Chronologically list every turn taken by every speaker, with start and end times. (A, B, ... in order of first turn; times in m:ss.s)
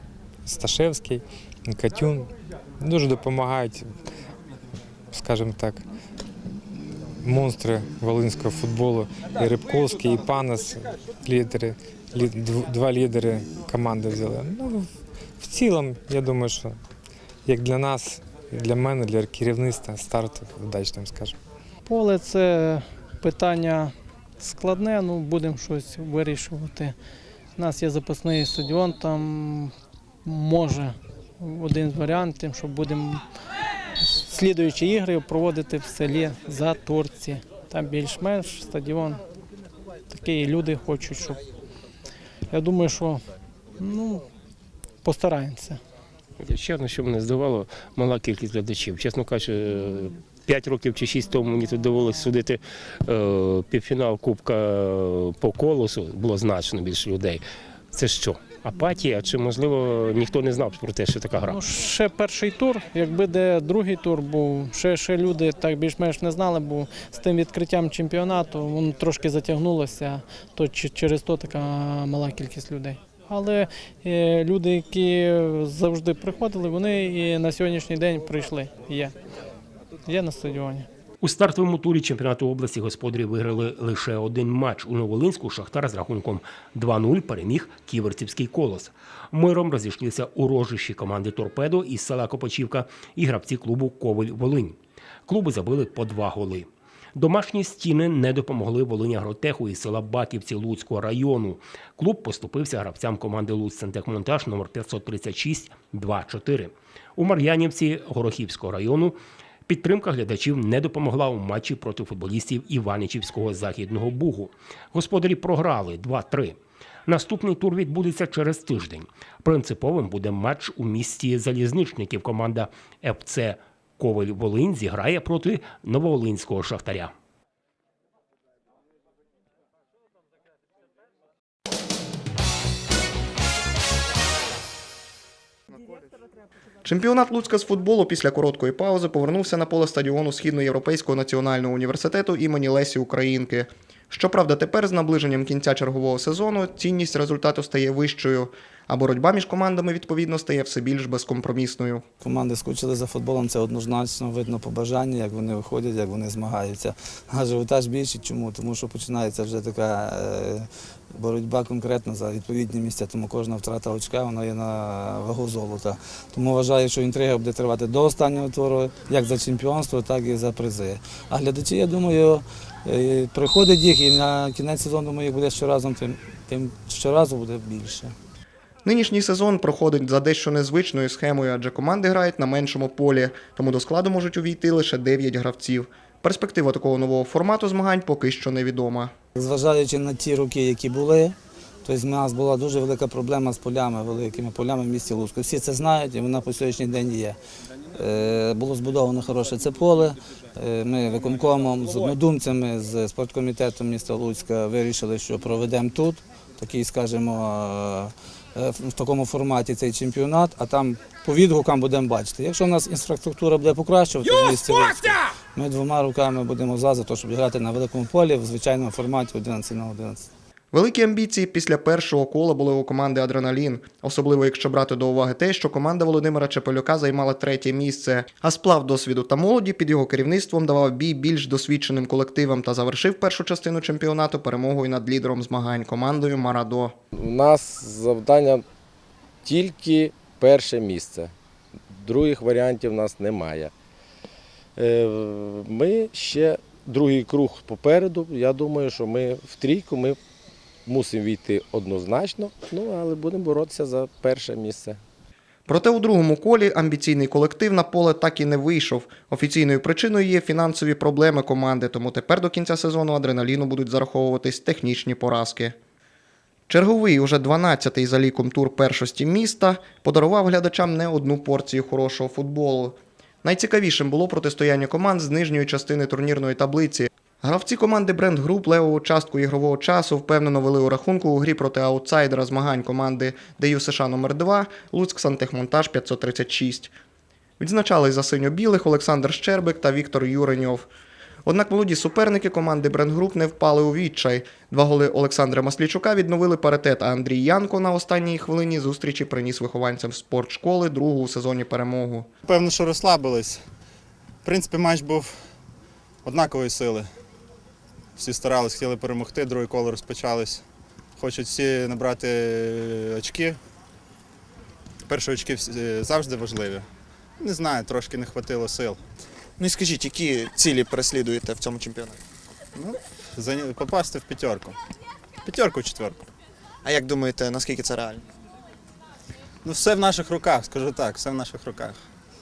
0:00.4-0:03.9 A
0:05.1-0:05.8 A
0:07.2-0:16.8 A
0:17.5-0:21.4 A
0:21.9-0:27.0 B
0:27.6-0:33.2 B
0:34.0-0:39.2 B
0:40.1-0:41.4 B
0:42.5-0:43.2 B
0:43.8-0:44.3 B
0:45.0-0:45.8 B
0:46.4-1:01.6 C
1:01.5-1:19.2 B
1:20.1-1:20.9 B
1:21.2-1:49.2 C
1:49.7-2:07.1 C
2:16.8-2:32.1 D
2:32.2-2:58.1 E
2:58.8-3:09.1 D
3:09.4-3:17.4 E
3:17.9-3:40.3 E
3:40.7-3:57.0 D
3:57.1-3:58.6 F
3:59.4-4:01.3 F
4:01.9-4:03.7 F
4:04.8-4:10.2 F
4:10.9-4:15.0 F
4:15.7-4:25.8 D
4:26.7-4:46.9 D
4:47.6-4:50.9 D
4:51.5-5:02.3 D
5:02.4-5:03.6 G
5:04.4-5:05.4 G
5:06.2-5:07.1 G
5:08.2-5:10.6 G
5:11.2-5:13.6 G
5:15.1-5:16.9 G
5:17.4-5:19.0 G
5:19.6-5:22.2 H
5:22.8-5:24.8 G
5:25.4-5:26.3 G
5:26.8-5:28.2 H
5:29.6-5:32.0 G